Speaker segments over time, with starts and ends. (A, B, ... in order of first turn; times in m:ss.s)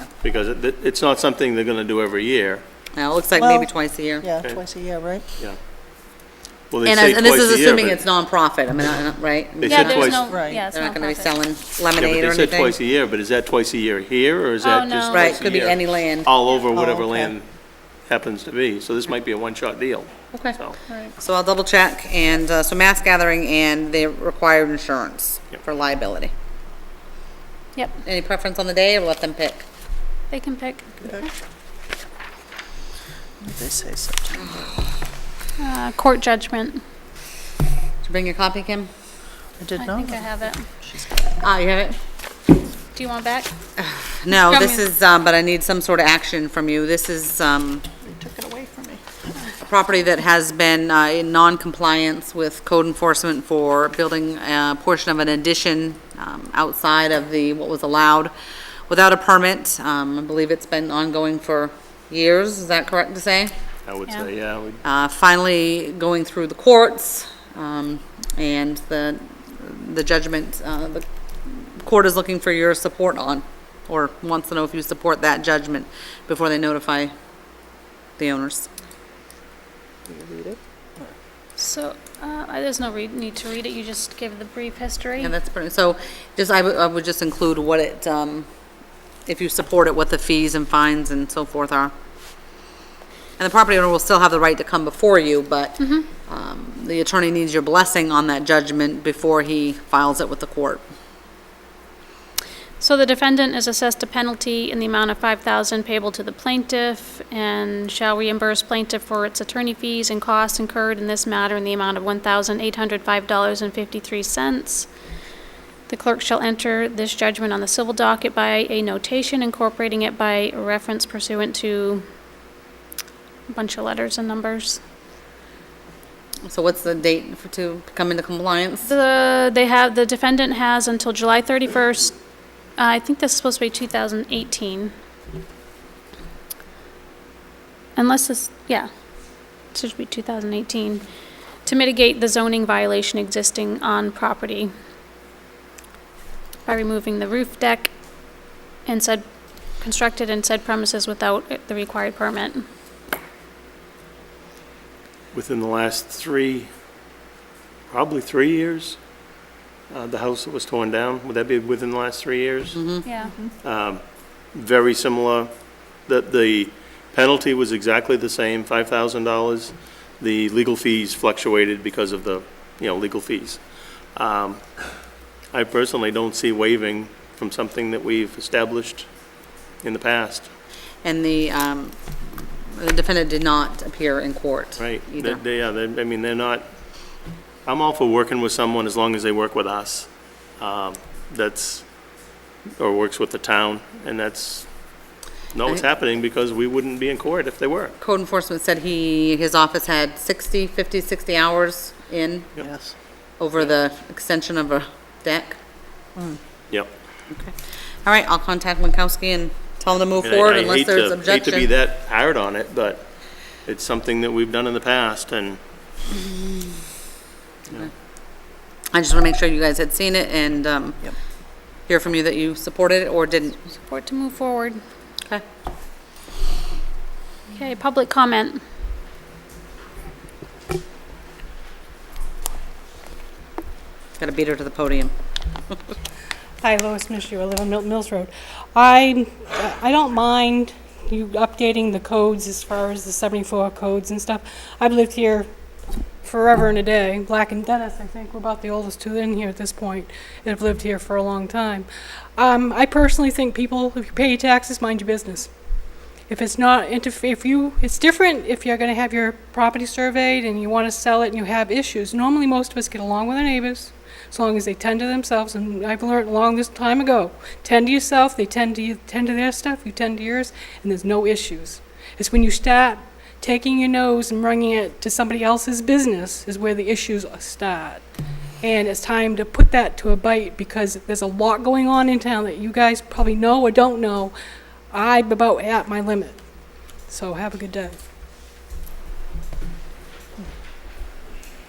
0:00.2-0:02.6 A
0:02.9-0:04.3 B
0:03.4-0:05.2 C
0:06.7-0:08.0 A
0:06.8-0:12.7 B
0:09.6-0:10.2 A
0:09.7-0:11.4 D
0:10.2-0:10.7 C
0:12.0-0:17.5 A
0:14.6-0:15.3 D
0:15.1-0:16.3 B
0:16.7-0:17.3 C
0:18.0-0:20.8 A
0:21.2-0:26.3 B
0:27.8-0:28.0 D
0:28.0-0:29.6 B
0:30.3-0:31.3 D
0:33.4-0:34.8 C
0:35.6-0:36.8 D
0:38.0-0:38.9 B
0:39.6-0:41.3 C
0:39.8-0:40.7 D
0:41.4-0:42.0 B
0:42.9-0:43.5 D
0:43.8-0:47.8 B
0:44.3-0:44.8 D
0:48.0-0:49.0 C
0:49.6-0:58.3 B
0:58.9-1:03.5 B
1:03.8-1:04.8 A
1:04.8-1:17.1 B
1:18.2-1:18.7 B
1:20.1-1:21.1 C
1:21.6-1:25.3 D
1:25.2-1:28.4 B
1:29.2-1:31.9 B
1:33.4-1:40.8 B
1:35.8-1:36.1 D
1:42.8-1:54.9 D
1:55.9-2:02.0 D
2:03.5-2:04.8 D
2:06.4-2:08.9 B
2:08.8-2:12.2 D
2:12.8-2:14.9 D
2:18.0-2:18.9 D
2:19.7-2:21.0 D
2:21.6-2:24.7 D
2:26.6-2:27.9 D
2:28.8-2:29.2 D
2:29.8-2:32.6 D
2:35.3-2:36.7 A
2:37.9-2:39.0 A
2:39.9-2:42.9 A
2:42.8-2:43.0 B
2:43.0-2:43.4 D
2:43.6-2:44.0 A
2:44.5-2:45.5 A
2:46.0-2:53.6 A
2:54.1-2:54.6 A
2:55.5-2:59.1 A
2:59.8-3:00.5 A
3:01.0-3:05.4 B
3:04.8-3:06.7 A
3:07.6-3:11.9 A
3:12.8-3:14.7 A
3:15.5-3:18.0 A
3:18.0-3:22.5 B
3:22.6-3:22.9 C
3:23.4-3:25.6 B
3:27.3-3:31.7 B
3:30.2-3:33.1 A
3:33.6-3:35.6 A
3:38.9-3:41.1 B
3:41.9-3:43.6 B
3:43.7-3:44.8 D
3:47.5-3:48.6 D
3:54.2-3:55.1 B
3:56.6-4:05.5 E
4:06.2-4:15.5 E
4:16.3-4:38.0 E
4:38.6-4:44.3 E
4:44.9-4:46.4 E
4:47.1-4:48.0 E